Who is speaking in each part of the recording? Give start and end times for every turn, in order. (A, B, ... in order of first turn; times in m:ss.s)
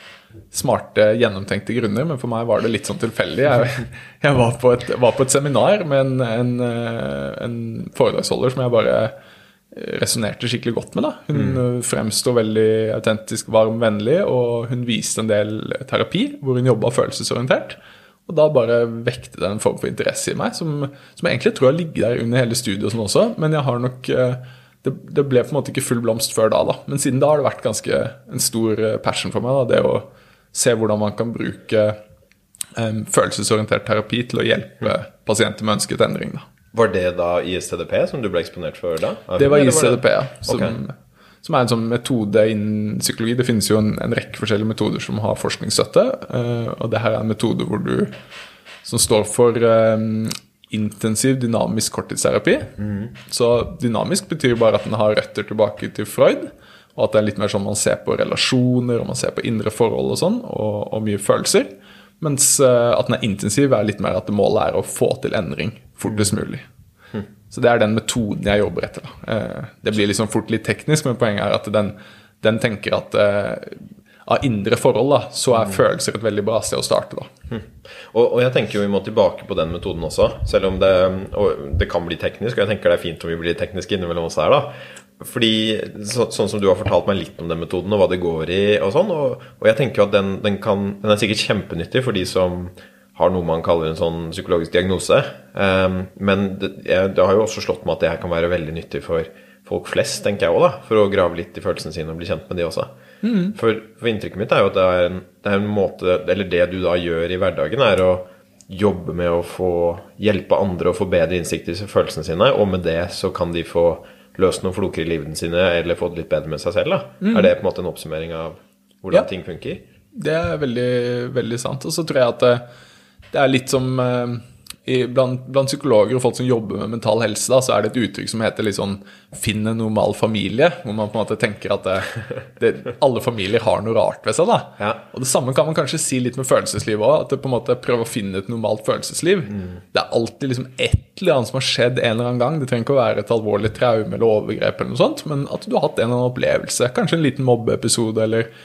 0:00.5-0:09.1 A
0:09.7-0:32.0 A
0:11.3-0:11.6 B
0:32.8-0:36.4 A
0:36.7-0:40.8 B
0:39.4-0:48.1 A
0:48.8-1:01.7 A
0:52.8-0:53.1 B
1:02.2-1:06.6 A
1:06.1-1:06.3 B
1:07.5-1:17.3 A
1:15.5-1:15.8 B
1:17.5-1:42.9 B
1:43.2-1:43.6 A
1:43.5-1:59.8 B
1:57.2-1:57.5 A
2:00.2-2:02.6 A
2:03.3-2:28.5 A
2:19.5-2:19.8 B